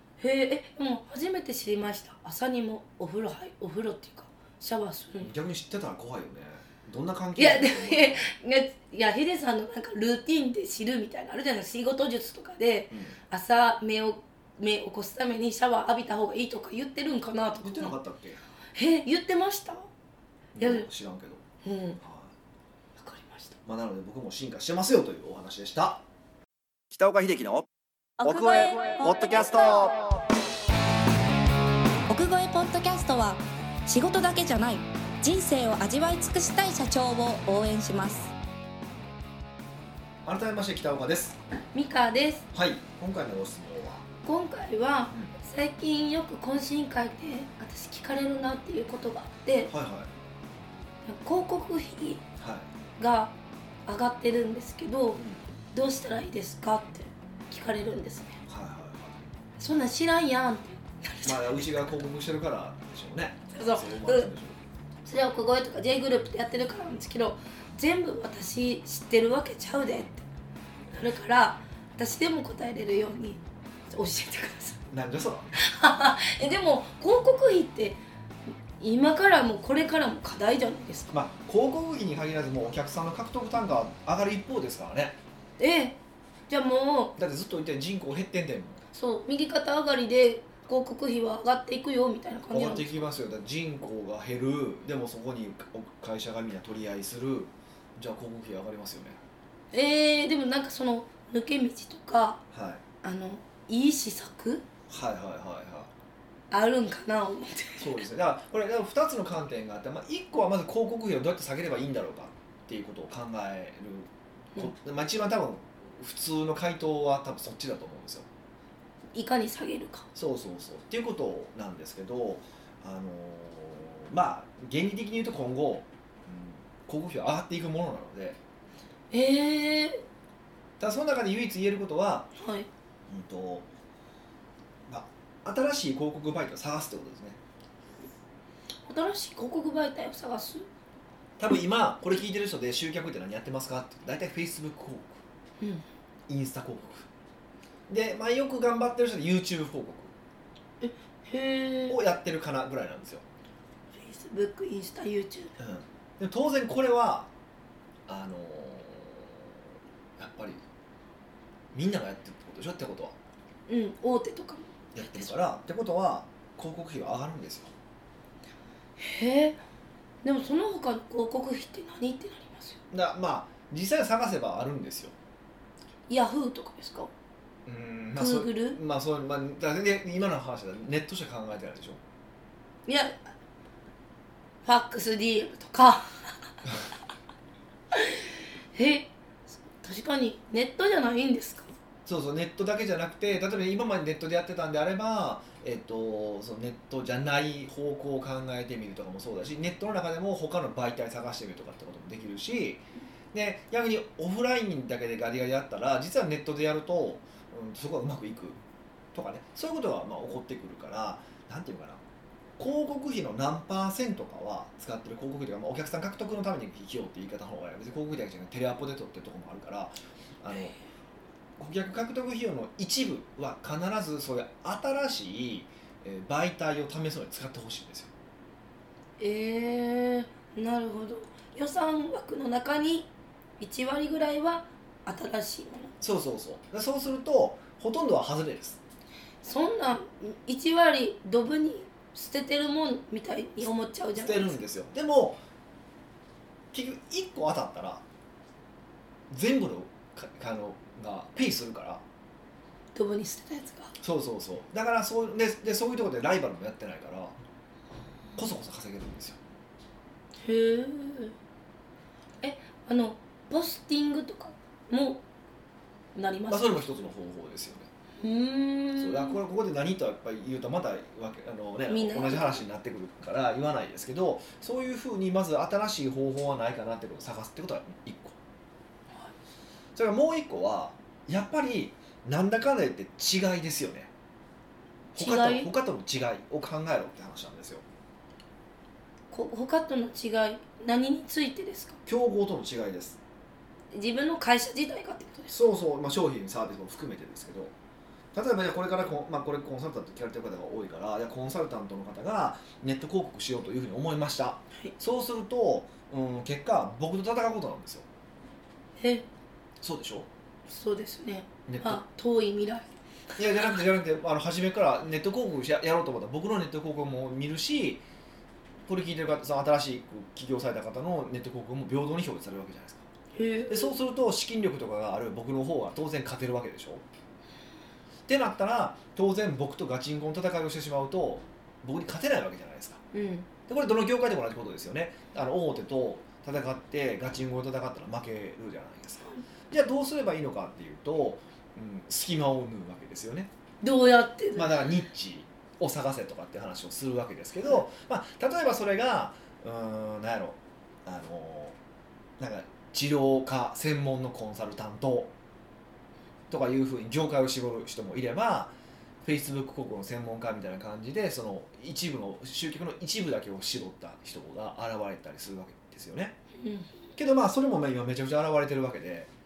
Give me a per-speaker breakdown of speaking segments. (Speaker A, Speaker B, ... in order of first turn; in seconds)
Speaker A: 0.2-5.3, 7.3-18.0, 18.7-19.9, 20.6-20.9, 21.6-22.0, 23.0-23.6, 41.7-42.5, 44.2-49.7, 51.0-52.2, 53.0-53.3, 53.9-55.2, 55.7-58.4, 59.6-61.9, 63.5-64.3, 65.0-70.2, 70.9-74.8, 75.6-78.0, 78.8-81.2, 85.6-87.1, 88.9-93.0, 99.7-102.4, 103.0-104.6, 106.5-108.0, 119.1-120.1, 129.1-130.0, 132.4-132.7, 138.9-140.7, 150.8-152.0, 153.9-155.5, 163.7-165.3, 169.0-169.6, 170.2-172.8, 176.1-177.1, 178.2-178.8, 182.8-183.3, 184.6-186.3, 187.9-191.7, 220.5-220.8, 229.2-235.9, 239.4-244.6, 252.9-253.9, 260.4-261.3, 262.4-265.2, 266.1-266.8, 268.2-269.4, 271.9-272.6, 285.1-285.7, 289.3-292.0, 293.9-295.6, 309.0-309.2, 310.7-312.9, 323.3-323.9, 333.1-333.5, 343.8-344.8, 366.6-366.9
Speaker B: 5.2-8.3, 12.9-13.2, 17.6-18.4, 20.5-21.4, 22.0-22.3, 23.6-26.0, 26.9-27.7, 28.2-30.1, 40.2-41.4, 42.5-44.0, 49.7-50.1, 52.4-52.7, 55.1-55.4, 58.5-59.3, 61.2-64.7, 74.9-75.6, 81.1-85.2, 87.2-88.8, 92.5-99.2, 102.5-102.8, 104.9-105.9, 107.8-118.3, 120.1-128.4, 130.8-132.3, 133.1-133.7, 134.9-137.4, 141.4-145.2, 146.3-147.1, 147.9-150.1, 151.9-153.2, 155.6-157.3, 158.1-159.5, 160.2-160.6, 161.7-163.2, 164.9-167.7, 172.9-175.1, 177.7-182.0, 192.1-208.6, 209.1-212.0, 212.6-220.8, 221.6-228.1, 236.0-238.8, 244.2-245.4, 246.7-248.0, 249.3-252.0, 254.0-257.4, 258.4-259.4, 266.5-267.9, 269.0-278.4, 279.9-284.1, 285.1-287.8, 292.1-293.2, 295.5-297.7, 298.3-308.1, 309.8-310.3, 311.7-312.0, 313.4-318.0, 318.9-323.1, 323.7-327.0, 328.3-333.0, 333.7-343.5, 344.5-351.8, 352.4-355.3, 356.5-366.4, 367.1-369.3
Speaker C: 28.2-29.8, 32.1-38.3